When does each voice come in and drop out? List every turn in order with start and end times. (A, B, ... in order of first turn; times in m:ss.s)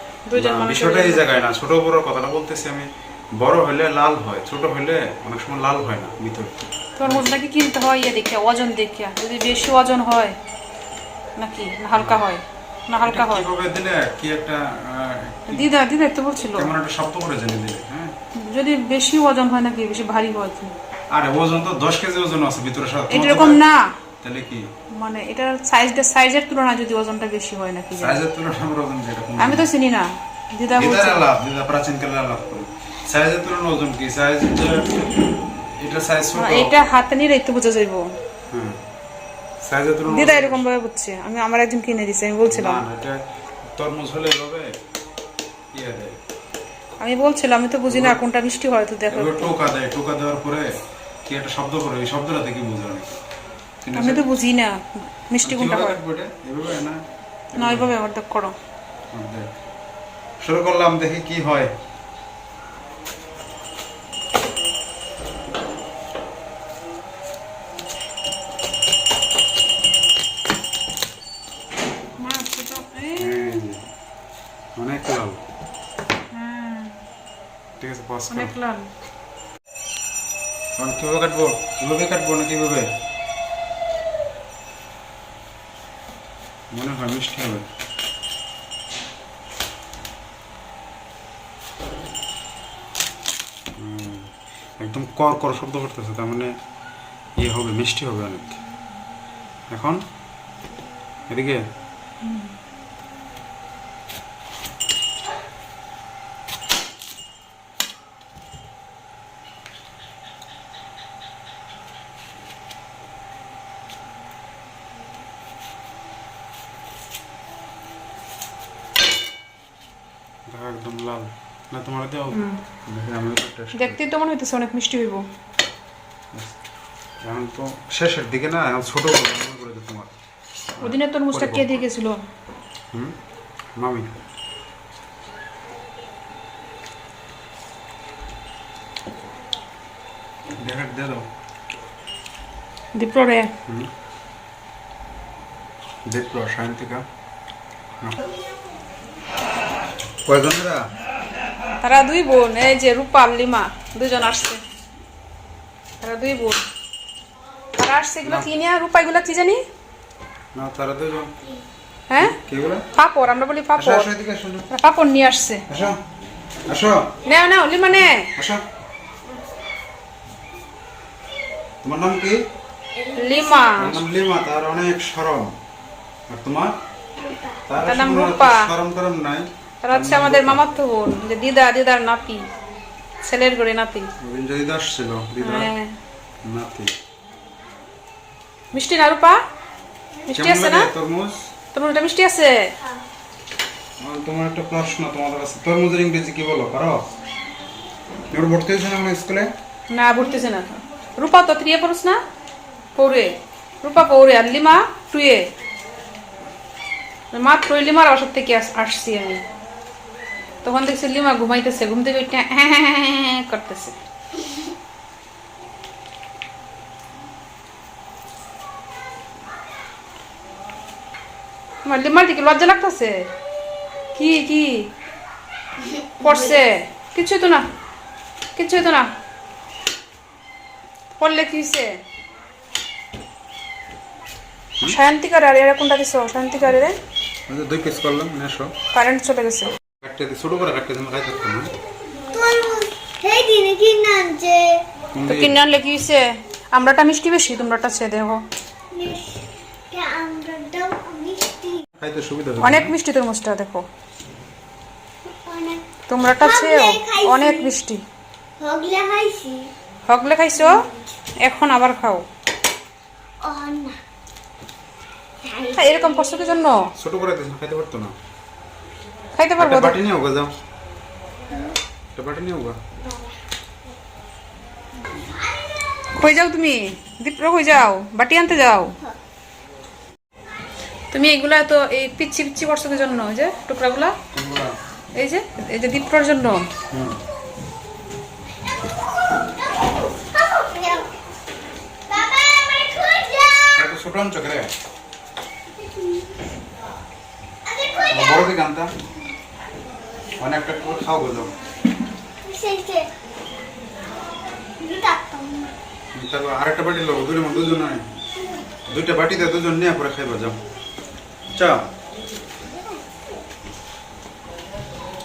0:00.2-0:01.2 A
0:00.4-0:07.3 B
0:07.0-0:10.4 A
0:11.4-0:13.4 A
0:12.0-0:12.2 B
0:13.0-0:15.7 B
0:15.5-0:16.7 A
0:16.5-0:18.2 B
0:18.3-0:20.8 A
0:21.1-0:23.6 B
0:23.1-0:23.9 A
0:24.2-0:24.7 B
0:24.9-0:28.2 A
0:28.0-0:29.6 B
0:29.4-0:31.2 A
0:30.8-0:34.9 B
0:35.8-0:36.8 B
0:36.3-0:38.1 A
0:38.5-0:38.8 B
0:39.6-0:40.6 B
0:40.1-0:42.8 A
0:42.5-0:43.2 B
0:43.8-0:44.8 B
0:45.7-0:46.2 B
0:47.0-0:49.5 A
0:47.9-0:48.2 B
0:49.1-0:50.7 B
0:51.2-0:53.2 B
0:53.8-0:54.2 B
0:54.0-0:56.0 A
0:55.4-0:57.0 B
0:57.5-0:57.9 B
0:57.6-0:58.5 A
0:59.1-0:59.5 B
1:00.4-1:01.7 B
1:12.2-1:13.3 A
1:13.2-1:13.8 B
1:14.8-1:15.4 B
1:16.3-1:17.0 A
1:17.8-1:18.5 B
1:18.3-1:18.9 A
1:20.8-1:22.9 B
1:26.7-1:27.7 B
1:33.8-1:36.5 B
1:37.4-1:38.6 B
1:39.7-1:40.0 B
1:41.3-1:41.6 B
1:42.2-1:42.5 A
2:00.5-2:04.0 B
2:02.3-2:02.6 A
2:03.8-2:05.2 A
2:07.2-2:10.1 B
2:10.8-2:11.8 B
2:10.8-2:12.2 A
2:13.8-2:14.1 B
2:20.6-2:21.3 B
2:22.9-2:23.5 A
2:23.6-2:23.9 B
2:26.1-2:27.0 B
2:30.2-2:30.9 B
2:31.8-2:34.6 A
2:36.0-2:36.6 A
2:37.8-2:39.6 A
2:38.2-2:38.5 B
2:40.6-2:41.4 B
2:42.1-2:42.3 A
2:42.2-2:42.8 B
2:42.9-2:44.1 A
2:43.8-2:44.7 B
2:44.7-2:45.6 A
2:45.7-2:46.0 B
2:46.7-2:47.1 B
2:47.2-2:48.3 A
2:48.3-2:48.6 B
2:51.8-2:52.4 B
2:52.9-2:53.9 C
2:53.2-2:54.0 A
2:53.8-2:55.5 B
2:56.3-2:56.7 B
2:57.2-2:57.6 C
2:57.7-3:00.6 B
2:57.8-2:58.7 A
2:59.8-3:02.5 A
3:03.2-3:04.1 A
3:04.2-3:05.7 B
3:05.4-3:06.0 A
3:06.4-3:06.9 B
3:08.7-3:09.4 A
3:10.3-3:10.9 A
3:10.3-3:11.5 B
3:11.7-3:12.7 A
3:14.0-3:17.1 B
3:18.3-3:19.5 B
3:19.9-3:22.2 A
3:23.0-3:25.5 A
3:27.3-3:29.4 A
3:30.6-3:34.0 A
3:41.8-3:43.3 A
3:44.1-3:44.9 A
3:45.8-3:46.6 C
3:46.2-3:47.6 A
3:48.6-3:49.1 A
3:51.2-3:52.0 A
3:54.8-3:57.0 A
3:57.5-3:58.7 B
3:58.9-3:59.7 A
4:00.0-4:01.7 B
4:02.2-4:04.9 C
4:05.1-4:05.6 B
4:05.3-4:08.4 A
4:08.9-4:11.8 C
4:12.0-4:12.9 B
4:12.6-4:13.8 A
4:15.2-4:15.8 C
4:16.1-4:18.0 A
4:16.4-4:17.7 C
4:18.6-4:19.7 C
4:20.1-4:20.8 A
4:20.6-4:21.0 C
4:21.4-4:22.2 A
4:23.4-4:24.0 C
4:25.4-4:26.6 C
4:25.8-4:26.9 A
4:26.9-4:28.1 B
4:29.4-4:30.0 A
4:29.6-4:30.5 B
4:31.5-4:31.8 C
4:32.2-4:32.8 B
4:33.0-4:33.4 C
4:35.1-4:35.5 C
4:36.2-4:39.0 A
4:41.1-4:44.2 A
4:44.3-4:44.8 B
4:45.1-4:46.7 A
4:46.9-4:47.2 B
4:50.4-4:51.2 C
4:52.1-4:53.7 C
4:53.7-4:54.7 B
4:55.7-4:56.5 C
4:57.7-4:58.5 C
4:58.1-4:58.9 B
5:00.4-5:01.5 B
5:02.4-5:03.1 C
5:04.8-5:05.7 C
5:06.1-5:08.1 B
5:08.9-5:10.6 B
5:11.5-5:11.9 B
5:12.7-5:13.0 C